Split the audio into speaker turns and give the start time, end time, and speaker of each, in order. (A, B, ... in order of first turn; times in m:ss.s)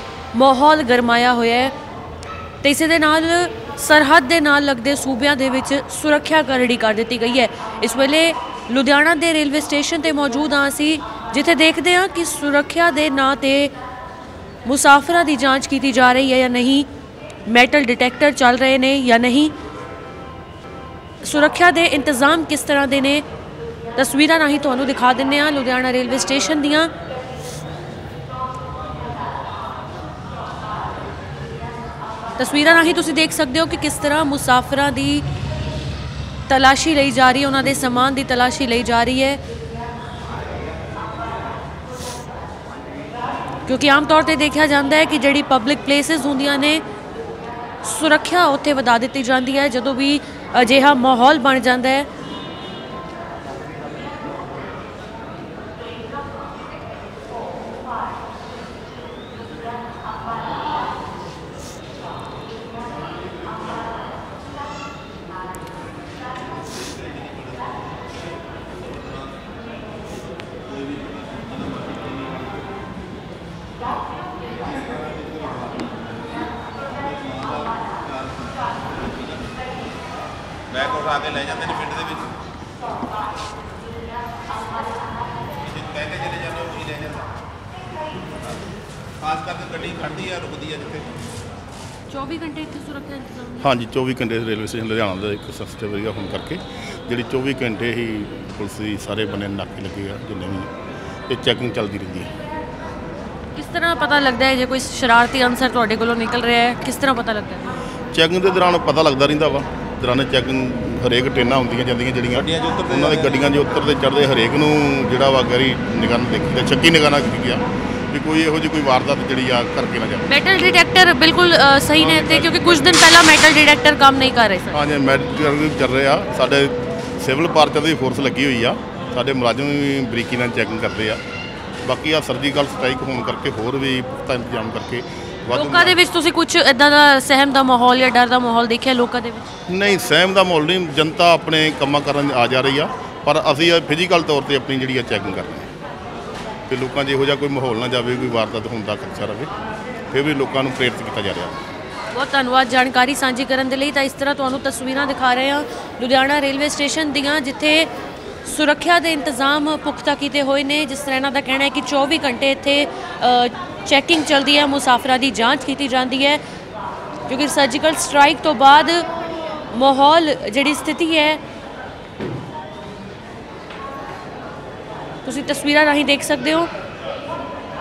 0:00.3-0:01.7 A
0:02.6-0:13.7 A
0:14.6-0:16.9 A
0:17.5-0:19.5 A
0:21.2-0:23.2 A
0:24.0-0:26.9 A
0:32.4-0:35.2 A
0:36.5-0:39.4 A
0:43.6-0:46.8 A
0:47.8-0:52.1 A
1:06.7-1:07.6 B
1:10.7-1:12.5 B
1:14.7-1:16.1 B
1:17.0-1:18.6 B
1:19.1-1:19.4 B
1:20.7-1:22.3 B
1:25.6-1:27.3 B
1:29.2-1:31.1 B
1:32.1-1:33.7 A
1:33.6-1:40.7 C
1:41.3-1:42.3 C
1:43.5-1:47.7 A
1:48.1-2:00.3 C
1:52.5-1:53.4 B
2:00.3-2:04.8 A
2:02.0-2:03.1 C
2:04.7-2:11.2 C
2:11.8-2:16.0 C
2:15.5-2:19.5 A
2:19.7-2:25.7 C
2:26.7-2:29.5 C
2:30.1-2:31.6 C
2:32.1-2:37.9 A
2:38.4-2:46.4 A
2:47.3-2:49.1 A
2:49.7-2:51.4 A
2:55.2-2:56.7 A